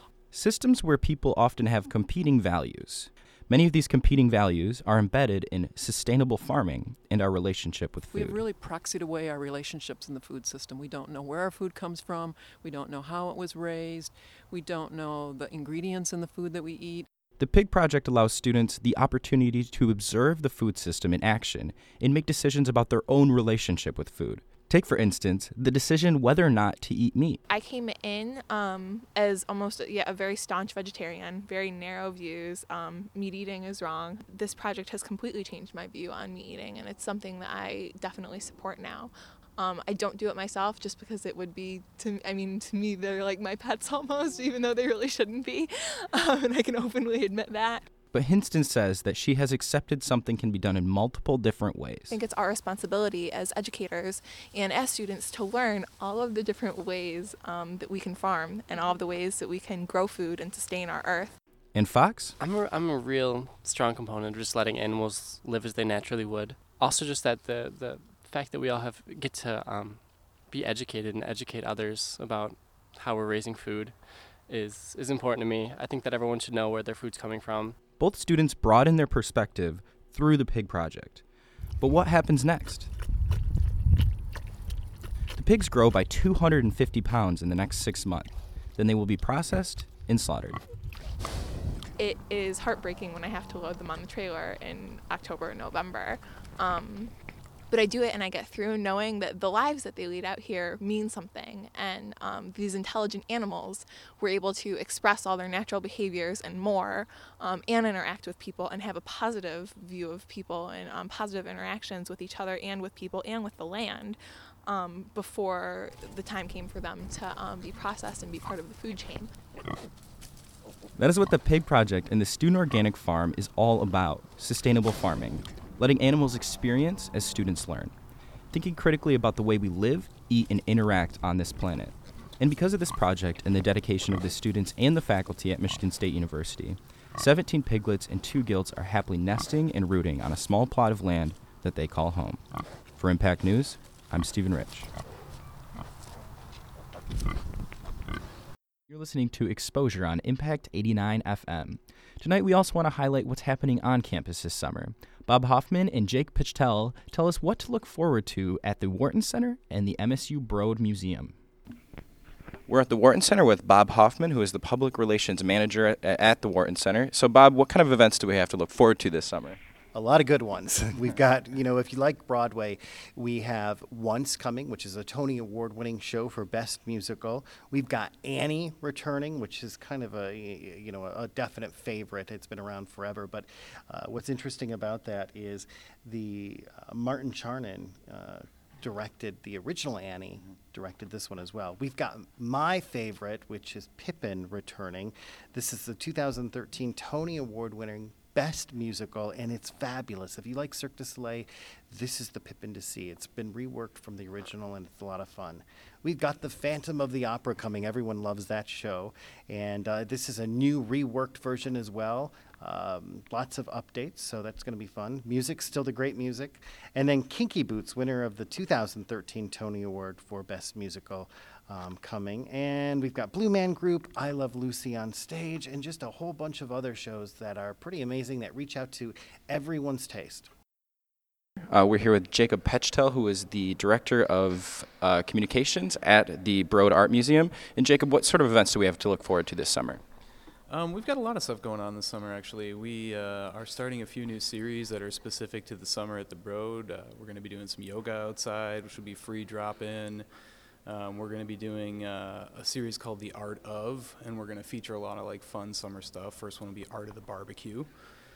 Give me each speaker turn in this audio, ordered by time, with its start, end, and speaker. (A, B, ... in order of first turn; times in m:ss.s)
0:00.3-0:08.4 A
0:08.1-0:17.1 B
0:17.4-0:27.4 A
0:27.5-0:47.9 C
0:48.1-0:52.2 A
0:52.1-1:01.4 C
1:01.7-1:02.4 A
1:02.4-1:17.8 D
1:18.0-1:21.2 A
1:21.8-1:22.9 A
1:25.4-1:30.6 A
1:32.0-1:37.1 C
1:37.7-1:59.3 C
2:01.0-2:07.9 A
2:08.5-2:22.4 A
2:23.0-2:24.9 A
2:28.9-2:41.4 A
2:42.7-2:49.6 A
2:49.9-3:50.5 E
3:51.7-4:00.0 A
4:00.7-4:10.3 F
4:10.8-4:17.9 F